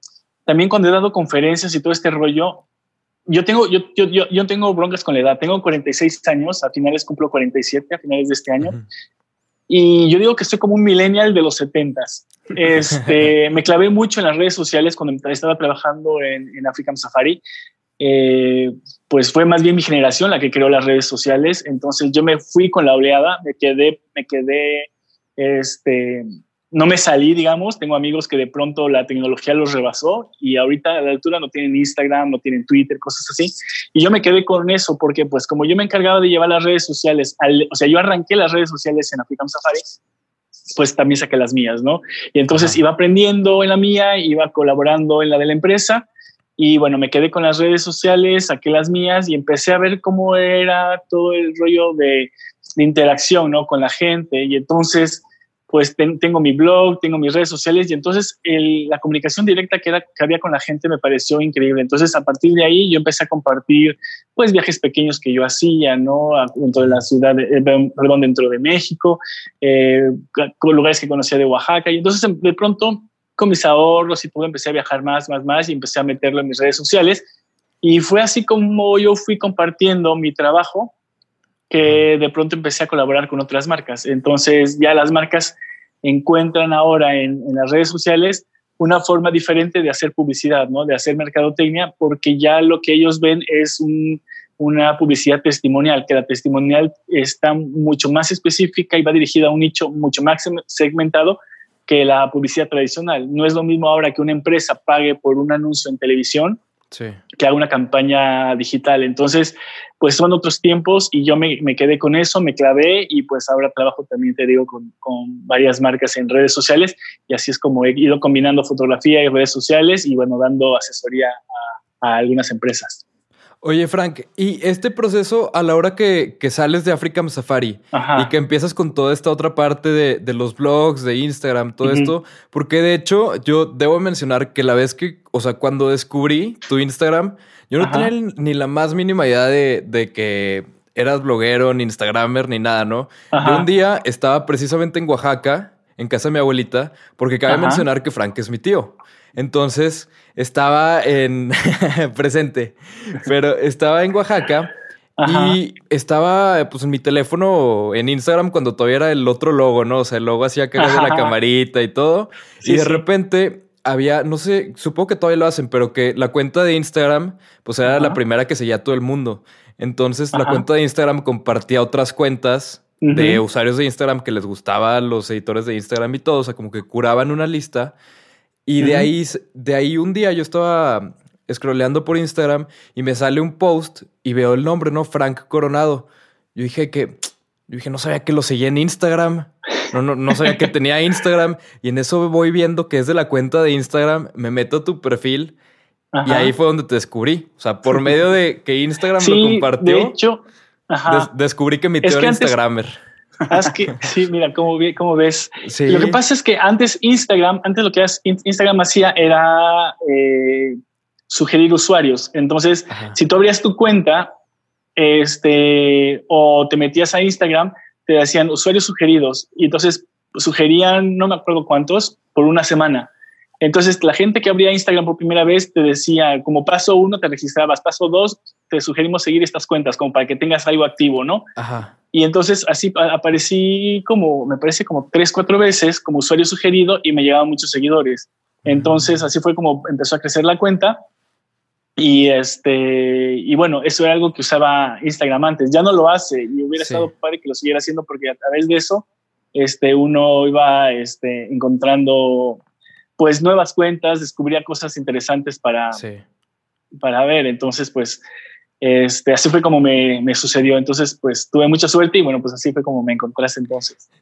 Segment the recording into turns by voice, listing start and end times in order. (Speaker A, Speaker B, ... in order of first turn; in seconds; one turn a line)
Speaker A: 0.5-2.6
Speaker A: 3.3-8.8
Speaker A: 9.7-17.4
Speaker A: 18.0-40.0
Speaker A: 40.8-77.3
Speaker B: 42.5-42.8
Speaker B: 66.8-67.0
Speaker A: 77.8-80.9
Speaker A: 81.7-106.6
Speaker B: 106.9-107.2
Speaker A: 107.4-123.0
Speaker B: 123.6-154.7
Speaker A: 127.9-128.3
Speaker A: 131.8-132.1
Speaker A: 137.8-138.1
Speaker A: 143.3-143.7
Speaker A: 147.5-147.8
Speaker A: 155.2-155.6
Speaker B: 155.2-177.9
Speaker A: 160.8-161.3
Speaker A: 162.7-163.0
Speaker A: 167.8-168.2
Speaker A: 170.3-170.6
Speaker A: 173.0-173.4
Speaker B: 178.7-195.5
Speaker A: 178.8-179.1
Speaker A: 190.4-190.7
Speaker A: 196.1-196.5
Speaker B: 196.3-200.2
Speaker A: 199.2-201.3
Speaker B: 201.1-203.0
Speaker A: 202.0-202.6
Speaker A: 203.5-214.3
Speaker B: 205.6-206.2
Speaker B: 212.9-213.2
Speaker A: 215.0-223.1
Speaker A: 223.6-231.5
Speaker B: 231.6-231.9
Speaker A: 232.1-241.0
Speaker B: 238.7-239.1
Speaker A: 242.0-252.6
Speaker B: 246.8-247.1
Speaker A: 253.2-256.0
Speaker B: 255.9-256.2
Speaker A: 257.0-258.2
Speaker A: 258.8-264.1